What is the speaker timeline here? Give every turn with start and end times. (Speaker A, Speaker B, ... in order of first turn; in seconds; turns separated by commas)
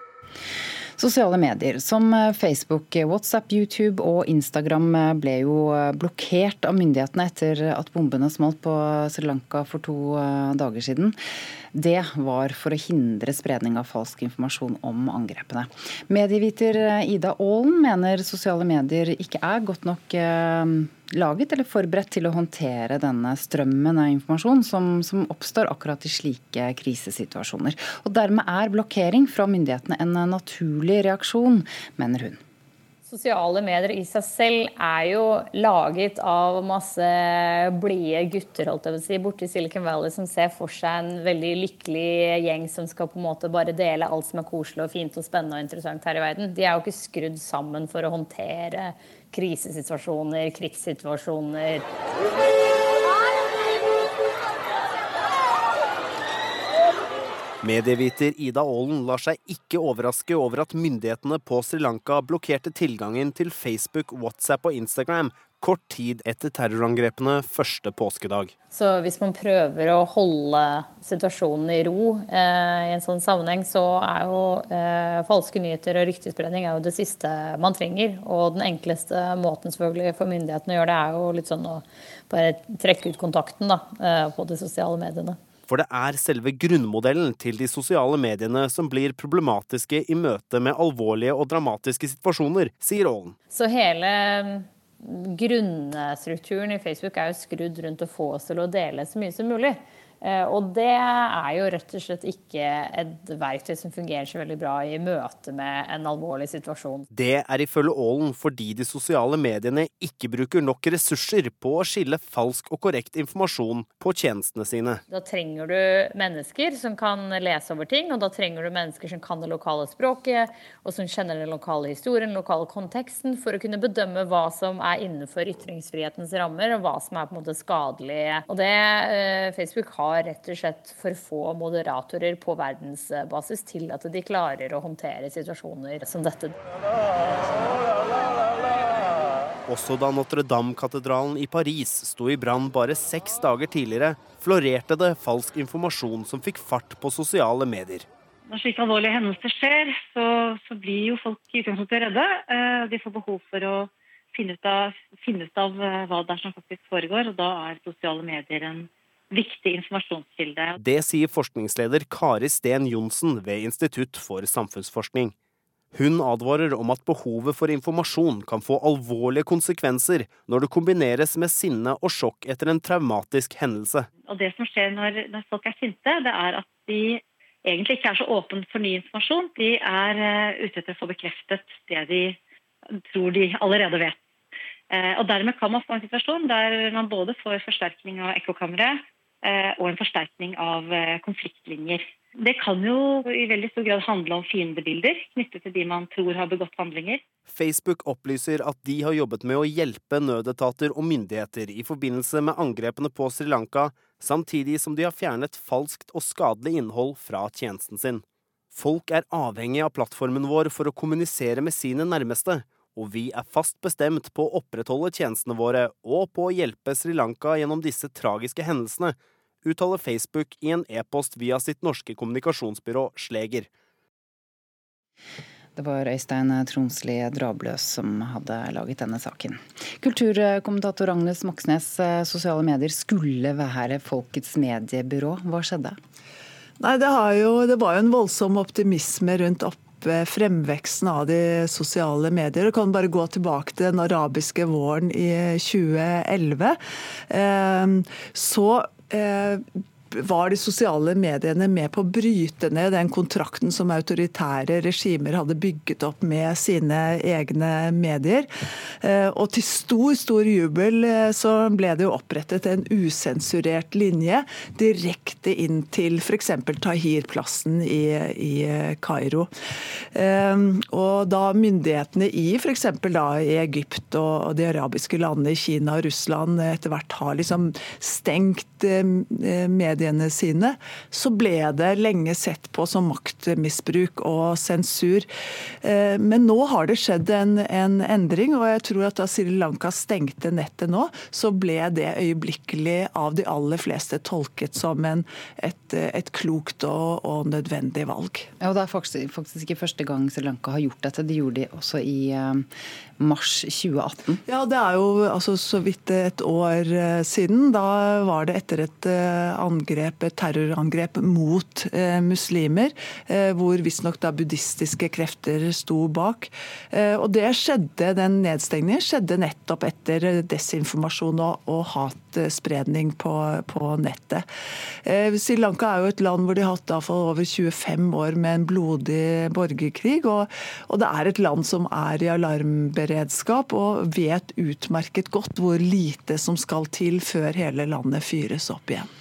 Speaker A: 1.0-11.2, Speaker A: 11.7-32.4, Speaker B: 33.0-51.9, Speaker C: 57.6-68.5, Speaker B: 68.7-85.4, Speaker C: 85.7-93.3, Speaker B: 93.5-107.1, Speaker C: 107.1-115.0, Speaker B: 115.1-136.6, Speaker C: 139.7-148.1, Speaker D: 148.5-160.7, Speaker C: 160.8-165.3, Speaker C: 165.9-174.1, Speaker D: 174.2-182.4, Speaker D: 183.0-184.2, Speaker D: 184.9-197.2, Speaker C: 197.5-223.7, Speaker A: 225.8-236.0, Speaker E: 236.8-246.8, Speaker E: 247.3-258.5, Speaker E: 259.0-269.5, Speaker E: 270.1-285.3, Speaker E: 285.8-298.5, Speaker A: 298.6-302.6, Speaker A: 303.2-304.4, Speaker E: 304.5-324.4, Speaker E: 325.0-339.1